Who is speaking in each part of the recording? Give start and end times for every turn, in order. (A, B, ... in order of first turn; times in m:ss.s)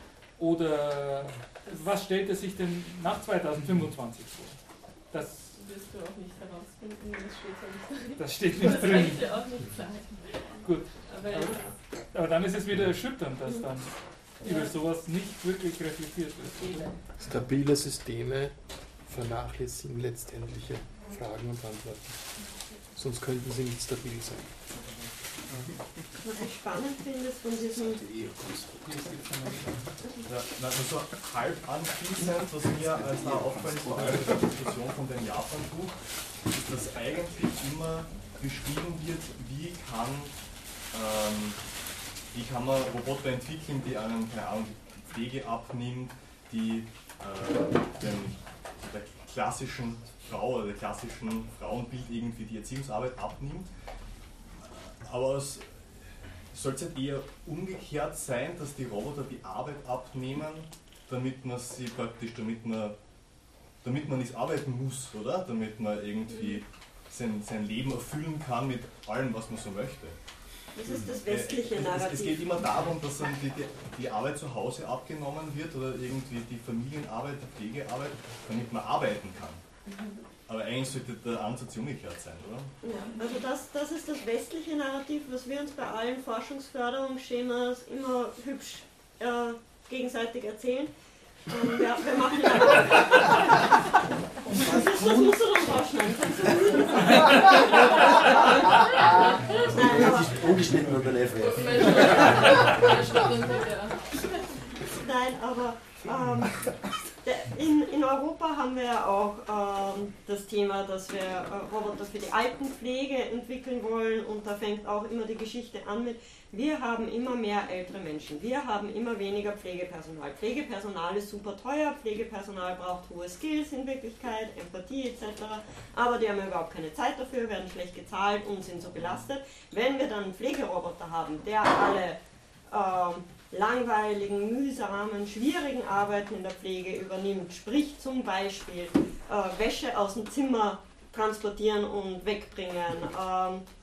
0:00.4-0:05.6 A
0:05.5-0:11.8 B
0:08.2-0:09.4 A
0:10.6-0:16.9 A
0:14.4-0:14.7 B
0:16.6-0:16.9 B
0:17.2-0:22.3 C
0:22.9-0:24.6 C
0:26.2-0:28.0 D
0:27.9-0:28.8 E
0:28.8-0:29.9 A
0:30.2-0:40.4 F
0:33.2-0:34.2 E
0:40.9-0:41.6 F
0:42.3-0:53.7 F
0:54.9-0:55.9 F
0:56.5-1:03.0 F
1:03.8-1:10.2 F
1:10.8-1:12.5 D
1:10.8-1:19.6 F
1:20.5-1:22.7 F
1:22.8-1:30.9 D
1:31.5-1:33.6 D
1:34.5-1:38.4 D
1:38.2-1:42.9 E
1:39.7-1:40.3 D
1:41.4-1:44.4 B
1:45.0-2:23.6 D